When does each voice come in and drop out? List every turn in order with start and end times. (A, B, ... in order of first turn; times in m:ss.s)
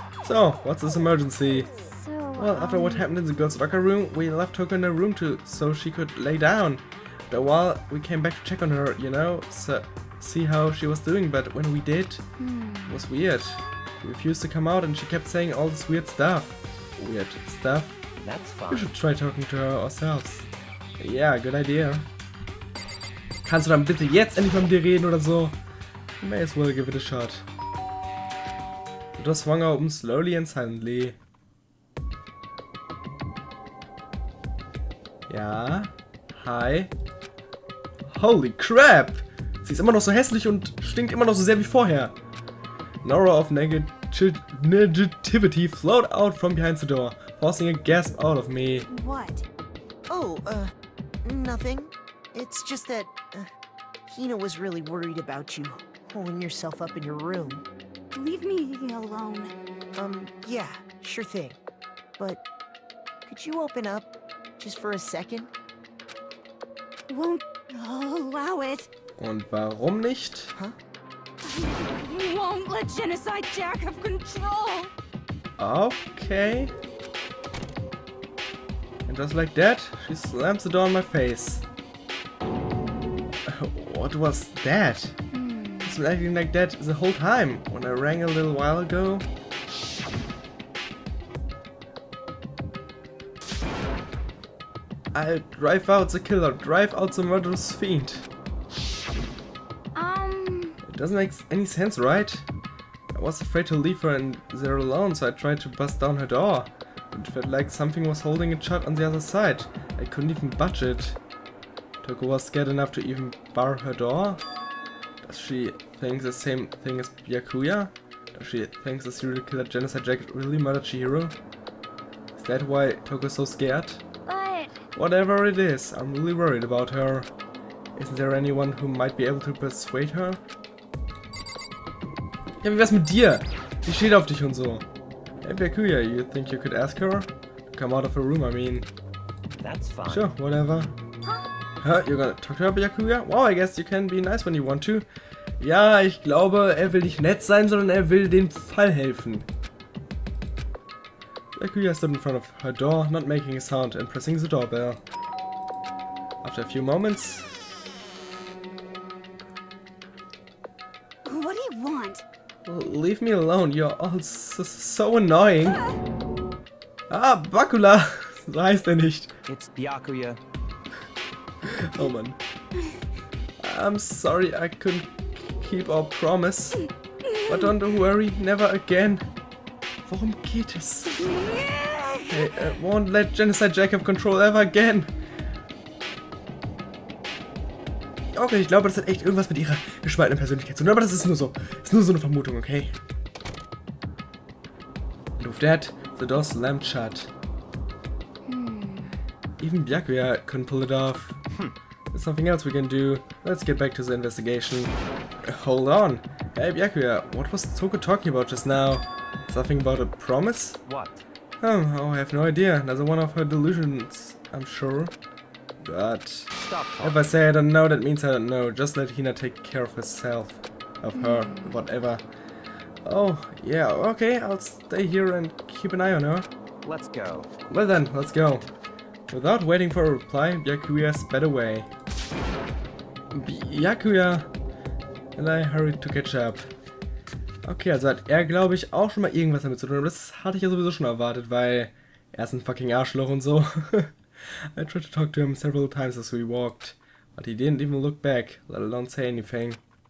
0:00.2-0:01.7 A
0:01.7-0:03.1 B
0:02.4-0:12.2 A
0:12.4-0:13.0 B
0:12.9-0:18.0 A
0:18.2-0:18.9 C
0:18.7-0:20.5 A
0:21.0-0:22.1 A
0:23.4-0:25.6 A
0:26.2-0:27.4 A
0:29.2-0:31.2 A
0:35.3-0:36.9 A
0:38.1-0:42.1 A
0:43.0-0:48.9 A
0:48.9-0:49.4 B
0:50.1-0:53.5 D
0:54.1-0:57.6 D
0:58.1-0:59.5 B
0:59.9-1:01.6 D
1:03.2-1:05.5 D
1:07.1-1:08.9 B
1:09.2-1:10.5 A
1:11.4-1:14.9 B
1:15.6-1:16.7 A
1:19.1-1:21.6 A
1:23.4-1:25.1 A
1:25.3-1:26.0 B
1:25.8-1:29.2 A
1:35.1-1:38.2 A
1:39.9-1:40.8 B
1:40.8-1:42.4 A
1:43.1-1:51.2 A
1:52.0-1:54.4 A
1:55.2-2:01.3 A
2:02.4-2:04.0 A
2:04.3-2:04.8 B
2:04.9-2:07.3 A
2:08.0-2:10.4 A
2:12.6-2:14.8 A
2:15.4-2:18.9 A
2:19.6-2:20.3 C
2:20.1-2:20.9 A
2:21.8-2:25.0 A
2:25.6-2:29.4 A
2:31.6-2:35.0 A
2:36.4-2:37.5 A
2:41.2-2:42.2 B
2:42.6-2:45.8 A
2:45.6-2:46.0 B
2:47.1-2:49.3 A
2:49.4-2:50.4 C
2:51.6-2:52.4 A
2:52.7-2:53.0 B
2:53.6-2:56.8 A
2:56.8-2:57.7 B
2:57.4-2:59.3 A
3:00.0-3:01.2 A
3:01.1-3:02.5 B
3:02.3-3:05.1 A
3:08.3-3:13.0 A
3:15.4-3:17.3 A
3:18.4-3:19.2 B
3:19.6-3:21.4 A
3:22.1-3:30.8 A
3:30.8-3:31.2 C
3:31.6-3:35.1 A
3:35.8-3:42.2 A
3:36.6-3:37.2 C
3:41.1-3:41.8 B
3:43.0-3:46.5 A
3:46.8-3:47.5 C
3:47.7-3:48.6 A
3:49.3-3:51.9 A
3:53.3-3:54.5 A
3:55.4-3:56.6 A
3:57.6-4:04.1 A
4:04.7-4:09.8 A